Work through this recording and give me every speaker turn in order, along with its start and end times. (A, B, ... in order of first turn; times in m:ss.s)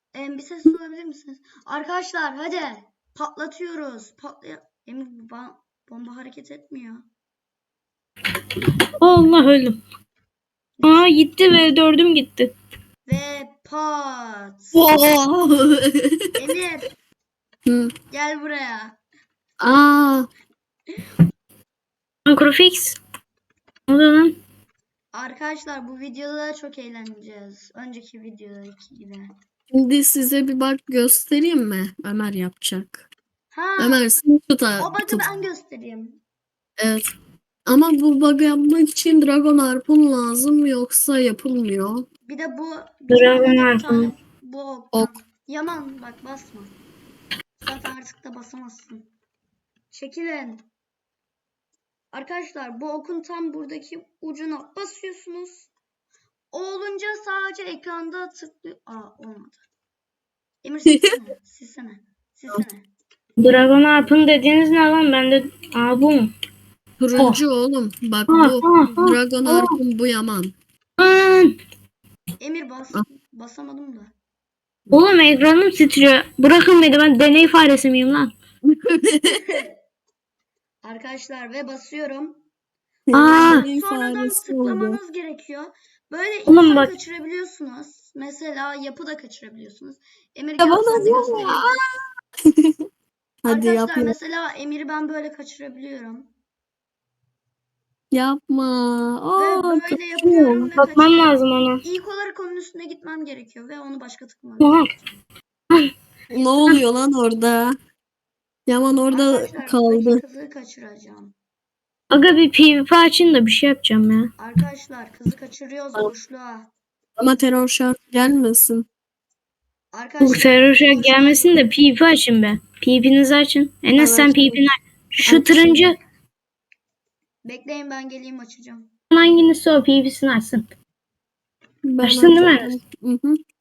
0:00.1-0:07.0 A
0:09.0-0:09.8 B
0:10.8-0:11.1 A
0:10.8-0:12.5 B
0:13.0-0:14.8 A
0:14.7-0:16.2 C
0:16.4-0:16.9 A
0:17.6-0:17.9 C
0:18.1-0:19.0 A
0:19.6-0:20.3 C
0:22.2-0:23.0 B
0:23.9-0:24.4 B
0:25.1-0:29.3 A
0:29.7-0:33.0 C
0:33.5-0:34.0 A
0:33.8-0:35.2 C
0:34.8-0:36.2 A
0:36.8-0:37.1 C
0:37.6-0:42.1 C
0:42.2-0:46.8 A
0:43.1-0:44.1 B
0:47.6-0:49.1 A
0:49.9-0:50.6 A
0:52.1-0:55.7 A
0:56.5-0:59.6 A
1:00.6-1:02.9 A
1:03.4-1:06.3 B
1:07.0-1:10.5 C
1:07.2-1:07.4 B
1:08.3-1:09.7 B
1:11.0-1:11.6 B
1:12.4-1:14.1 A
1:14.9-1:18.3 B
1:18.6-1:19.4 C
1:19.3-1:19.7 A
1:20.8-1:22.4 A
1:23.1-1:25.0 C
1:23.1-1:23.7 B
1:23.4-1:31.8 A
1:26.5-1:26.9 B
1:30.6-1:31.8 C
1:33.4-1:34.1 C
1:33.4-1:36.3 A
1:38.1-1:40.7 C
1:39.4-1:44.8 A
1:40.8-1:41.8 B
1:44.6-1:44.9 B
1:46.3-1:47.8 C
1:48.7-1:50.2 C
1:49.1-1:51.3 A
1:52.1-1:54.3 B
1:54.4-1:56.7 A
1:57.2-1:58.9 C
1:59.9-2:01.6 A
2:00.2-2:06.0 B
2:04.0-2:04.6 C
2:05.2-2:05.8 C
2:07.4-2:08.9 A
2:09.1-2:10.7 B
2:11.8-2:13.4 C
2:12.0-2:12.7 B